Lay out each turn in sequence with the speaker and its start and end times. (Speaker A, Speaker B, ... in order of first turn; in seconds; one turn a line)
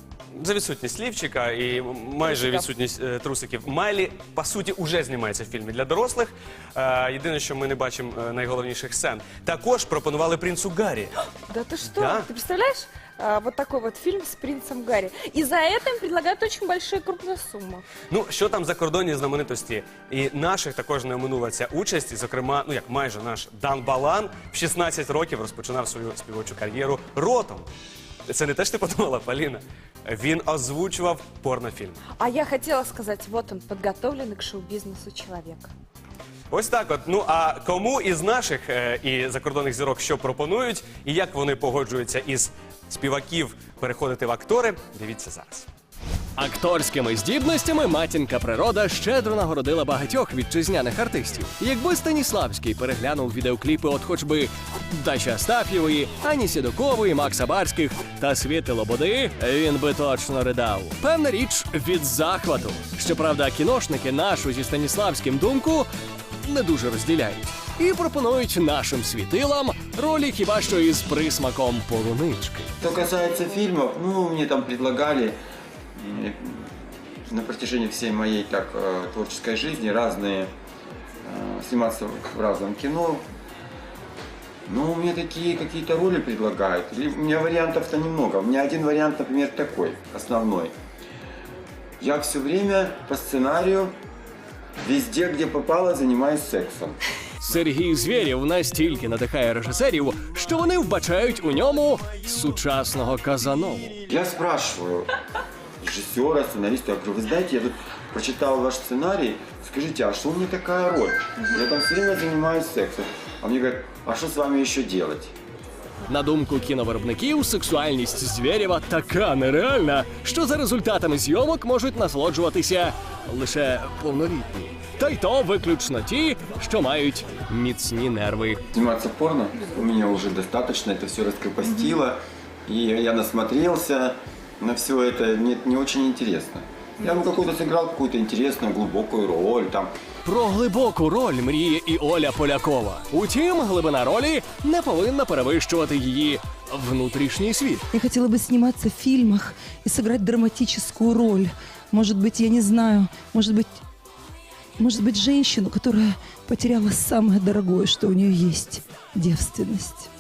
Speaker A: 0.3-11.1
Speaker B: 2.2-2.7
Speaker B: 11.5-17.9
Speaker A: 11.8-12.3
Speaker A: 18.0-27.7
Speaker A: 28.3-32.0
Speaker B: 32.2-35.7
Speaker A: 36.5-45.6
Speaker C: 46.4-65.9
Speaker C: 66.5-72.7
Speaker D: 72.8-75.4
Speaker D: 76.0-76.7
Speaker D: 77.2-80.5
Speaker D: 81.2-83.2
Speaker D: 84.7-90.7
Speaker D: 92.0-93.9
Speaker D: 94.8-97.0
Speaker C: 97.4-104.0
Speaker D: 104.1-105.1
Speaker D: 105.8-115.3
Speaker C: 116.1-128.6
Speaker D: 128.7-139.9
Speaker C: 140.2-147.8
Speaker E: 147.9-153.8
Speaker E: 154.8-160.1